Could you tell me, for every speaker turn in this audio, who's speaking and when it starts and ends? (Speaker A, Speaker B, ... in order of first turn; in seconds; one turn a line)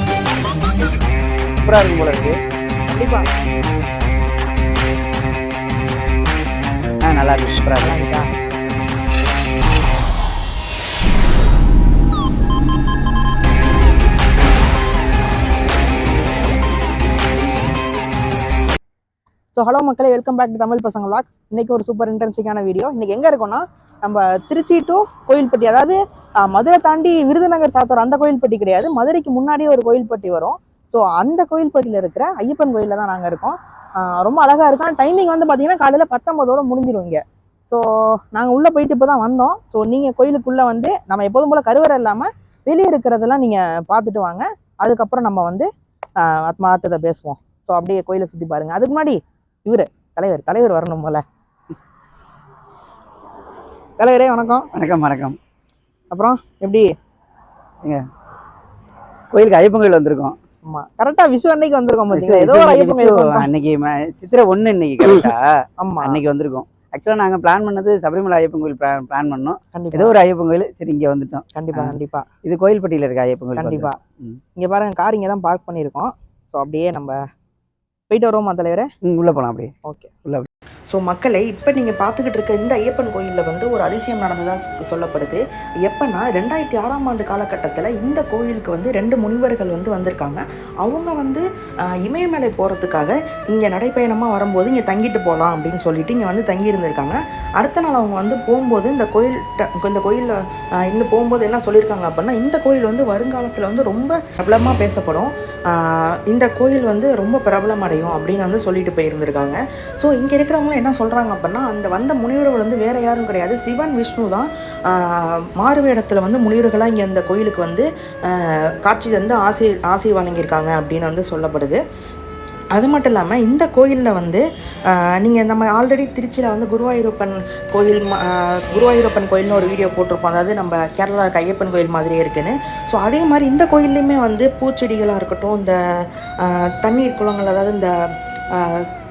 Speaker A: 1.6-2.4
Speaker B: 2.9-3.2
Speaker A: 7.0-8.0
Speaker B: 7.8-8.3
Speaker B: 19.5-45.7
Speaker B: 46.2-51.2
Speaker B: 54.0-54.7
Speaker A: 54.7-55.4
Speaker B: 56.1-56.9
Speaker A: 59.3-60.4
Speaker B: 60.6-63.5
Speaker A: 62.1-65.4
Speaker B: 65.8-66.2
Speaker A: 66.0-74.4
Speaker B: 69.7-70.1
Speaker B: 71.5-72.3
Speaker B: 73.5-74.0
Speaker B: 74.6-77.2
Speaker B: 78.1-78.9
Speaker A: 79.0-79.7
Speaker C: 80.9-121.8
Speaker C: 122.7-138.9